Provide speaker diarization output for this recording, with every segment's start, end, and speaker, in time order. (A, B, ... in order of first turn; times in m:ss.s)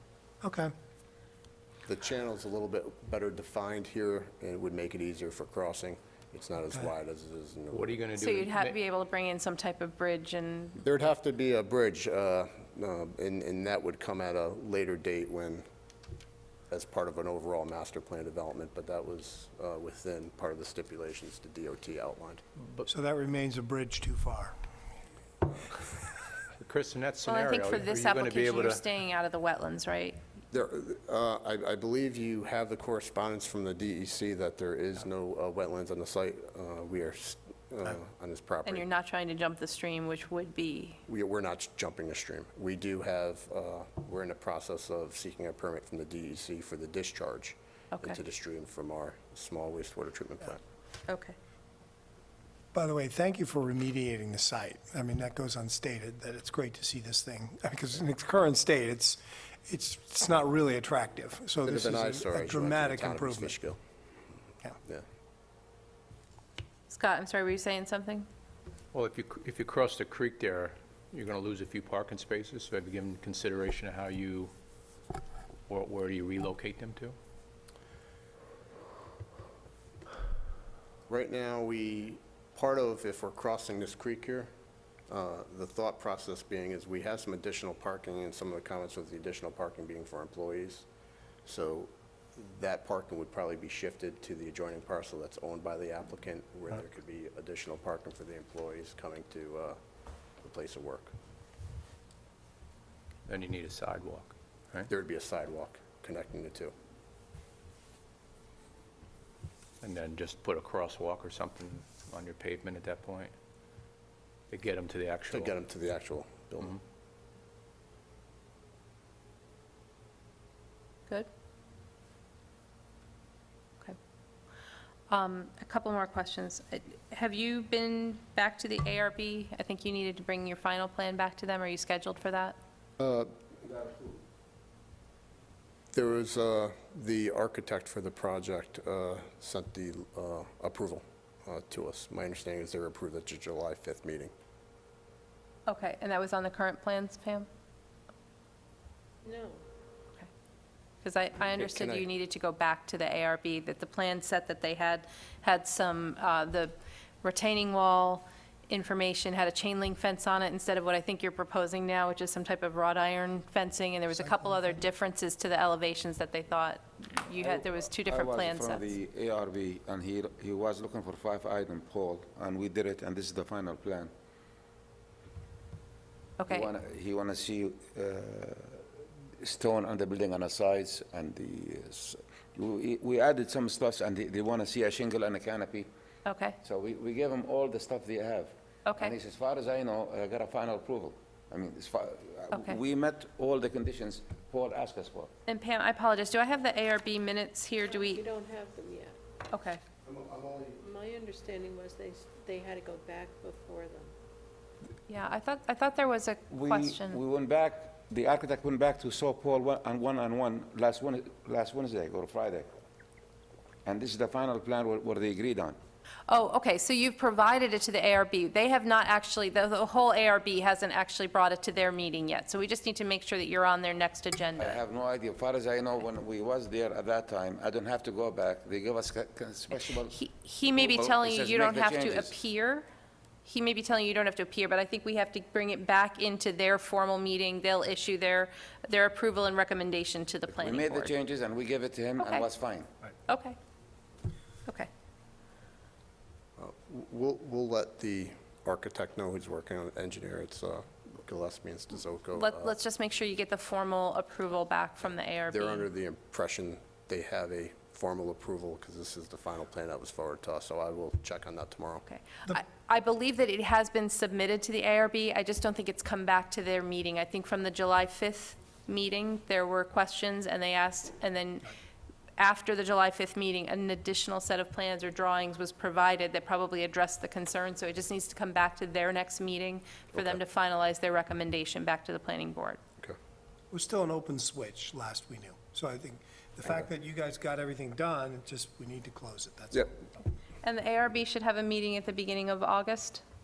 0:00.4-0:00.7 A
0:01.9-0:08.0 B
0:07.7-0:08.8 C
0:08.2-0:10.8 D
0:10.8-0:15.7 B
0:16.7-0:22.4 B
0:22.6-0:22.9 C
0:22.9-0:24.5 A
0:26.6-0:28.8 C
0:27.3-0:30.2 D
0:30.5-0:38.9 B
0:38.6-0:41.0 D
0:41.1-0:50.6 B
0:47.9-0:48.2 D
0:51.1-0:51.4 D
0:52.7-1:03.6 A
1:01.6-1:03.8 B
1:06.9-1:08.3 D
1:08.9-1:14.5 C
1:15.7-1:17.2 C
1:21.1-1:24.5 B
1:25.1-1:30.9 B
1:31.4-1:39.8 B
1:40.4-1:41.1 B
1:43.3-1:44.9 C
1:44.9-1:46.7 B
1:49.8-1:53.3 C
1:54.5-1:55.6 C
1:55.3-1:56.8 B
2:05.1-2:12.6 D
2:13.0-2:13.3 B
2:13.6-2:14.2 E
2:15.9-2:24.3 B
2:25.7-2:27.5 D
2:29.2-2:29.6 F
2:31.0-2:48.9 D
2:31.5-2:32.1 B
2:47.4-2:54.1 E
2:56.4-2:56.7 D
2:56.5-2:58.8 E
2:59.4-3:05.9 E
3:06.2-3:06.6 D
3:06.6-3:15.3 E
3:08.9-3:09.1 D
3:12.5-3:12.8 D
3:15.5-3:18.2 D
3:17.9-3:19.1 F
3:19.5-3:19.8 D
3:20.1-3:20.8 B
3:20.8-3:24.1 F
3:25.1-3:27.2 D
3:26.5-3:32.7 E
3:33.8-3:35.8 E
3:36.3-3:44.8 D
3:44.6-3:50.2 E
3:50.1-3:52.9 D
3:50.7-3:52.3 E
3:53.4-4:01.1 D
4:00.5-4:02.9 E
4:02.2-4:02.5 D
4:03.3-4:03.6 D
4:06.6-4:12.8 B
4:12.3-4:15.9 D
4:15.5-4:22.0 B
4:22.1-4:31.7 D
4:32.4-4:42.8 D
4:40.2-4:40.4 B
4:43.7-4:49.9 A
4:50.6-4:53.2 D